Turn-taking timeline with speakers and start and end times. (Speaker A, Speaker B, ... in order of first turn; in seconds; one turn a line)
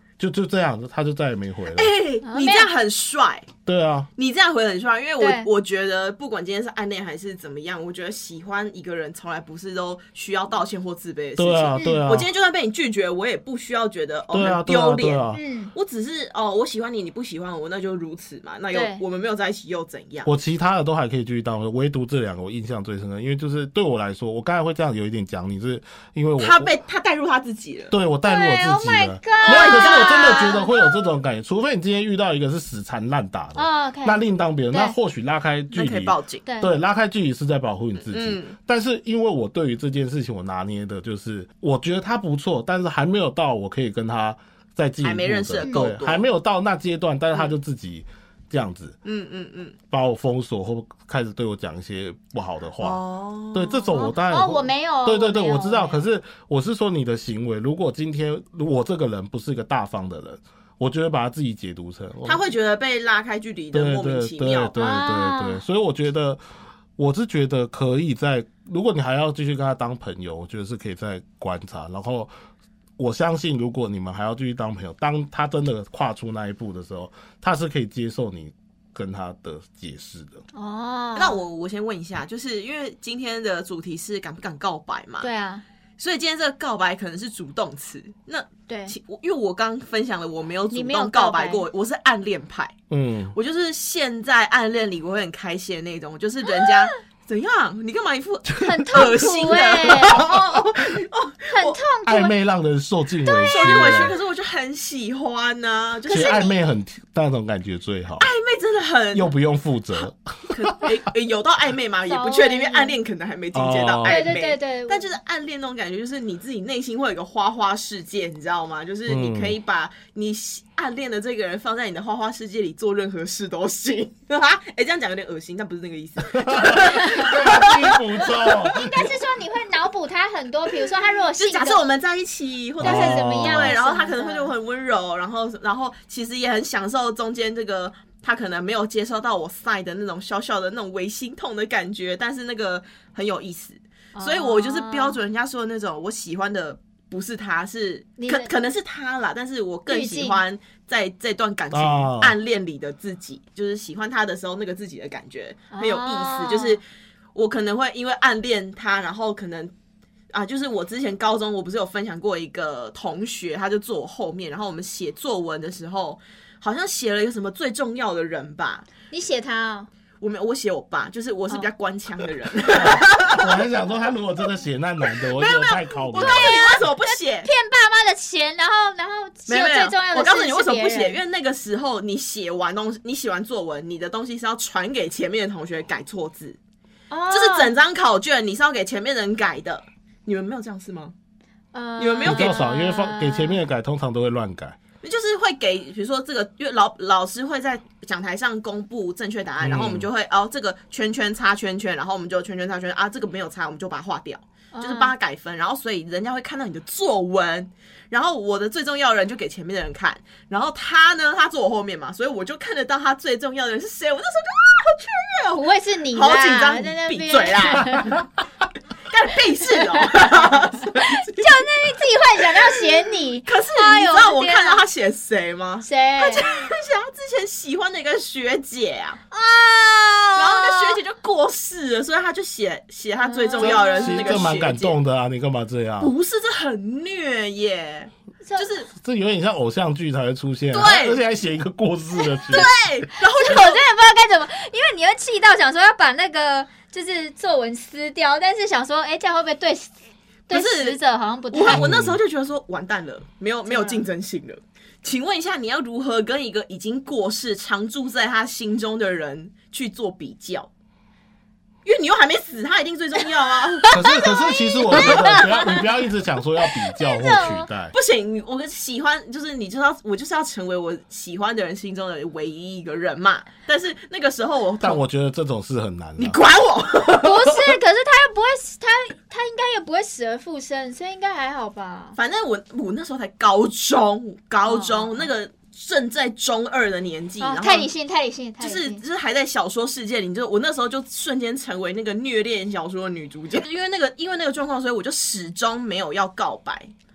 Speaker A: 0.2-1.9
Speaker B: 1.7-3.5
Speaker C: 2.2-2.7
Speaker A: 3.6-4.1
Speaker B: 4.2-20.3
Speaker C: 5.2-5.5
Speaker A: 11.4-12.3
Speaker C: 11.7-12.1
Speaker A: 14.3-15.4
Speaker C: 15.3-15.7
Speaker C: 18.7-19.0
Speaker A: 20.2-26.7
Speaker B: 26.4-27.9
Speaker A: 27.9-49.0
Speaker C: 28.2-31.0
Speaker B: 29.4-30.6
Speaker C: 33.5-34.9
Speaker B: 35.7-36.4
Speaker C: 36.5-36.7
Speaker B: 38.1-38.5
Speaker B: 45.0-46.2
Speaker C: 45.6-45.9
Speaker B: 49.0-49.8
Speaker A: 49.9-53.0
Speaker B: 52.8-54.1
Speaker A: 53.5-62.4
Speaker C: 53.9-56.0
Speaker B: 62.2-64.7
Speaker A: 63.7-66.4
Speaker C: 64.8-65.6
Speaker A: 67.0-72.3
Speaker A: 73.0-80.4
Speaker C: 80.5-81.4
Speaker B: 81.2-85.3
Speaker C: 85.2-85.6
Speaker B: 86.0-92.7
Speaker C: 88.7-88.9
Speaker C: 90.7-91.6
Speaker A: 92.9-93.3
Speaker B: 93.3-101.8
Speaker C: 98.6-100.3
Speaker C: 101.5-102.3
Speaker A: 102.0-104.1
Speaker C: 103.2-104.1
Speaker B: 103.5-106.5
Speaker C: 106.1-106.6
Speaker A: 106.1-108.3
Speaker B: 108.2-109.3
Speaker A: 109.1-110.9
Speaker B: 110.5-128.6
Speaker C: 112.0-113.0
Speaker A: 113.5-114.3
Speaker C: 114.0-115.1
Speaker A: 119.1-119.6
Speaker A: 126.3-129.1
Speaker C: 126.8-127.9
Speaker C: 128.7-131.8
Speaker B: 131.4-156.8
Speaker A: 132.8-133.8
Speaker C: 132.8-134.5
Speaker C: 144.1-145.2
Speaker C: 148.2-148.5
Speaker C: 149.9-150.4
Speaker A: 151.7-152.3
Speaker C: 155.7-156.8
Speaker B: 157.3-159.7
Speaker B: 160.3-168.9
Speaker C: 169.1-169.9
Speaker B: 170.2-173.6
Speaker A: 172.8-176.7
Speaker B: 175.3-177.5
Speaker C: 176.1-181.2
Speaker B: 179.5-186.6
Speaker C: 187.1-187.7
Speaker B: 187.3-191.1
Speaker C: 191.7-193.6
Speaker B: 192.0-192.6
Speaker A: 192.2-194.8
Speaker B: 195.0-218.2
Speaker A: 199.6-200.1
Speaker C: 204.7-205.1
Speaker C: 215.6-218.2
Speaker B: 219.1-221.9
Speaker C: 219.7-224.8
Speaker B: 222.5-235.0
Speaker C: 225.8-226.5
Speaker C: 230.3-231.0
Speaker C: 233.2-234.5
Speaker A: 233.6-236.1
Speaker B: 236.0-238.9
Speaker C: 238.4-238.7
Speaker A: 238.9-242.7
Speaker B: 240.7-241.2
Speaker B: 242.5-243.8
Speaker C: 243.2-249.9
Speaker C: 250.5-251.8
Speaker B: 250.5-251.0
Speaker B: 251.5-260.7
Speaker A: 251.7-252.2
Speaker C: 253.7-254.0
Speaker B: 261.8-264.0
Speaker A: 263.9-267.9
Speaker C: 264.0-265.8
Speaker B: 264.9-265.6
Speaker C: 266.9-267.7
Speaker B: 267.9-275.0
Speaker A: 274.8-276.4
Speaker B: 276.2-277.6
Speaker C: 277.2-282.2
Speaker B: 282.1-287.9
Speaker C: 284.6-285.3
Speaker C: 287.4-289.0
Speaker B: 288.6-296.9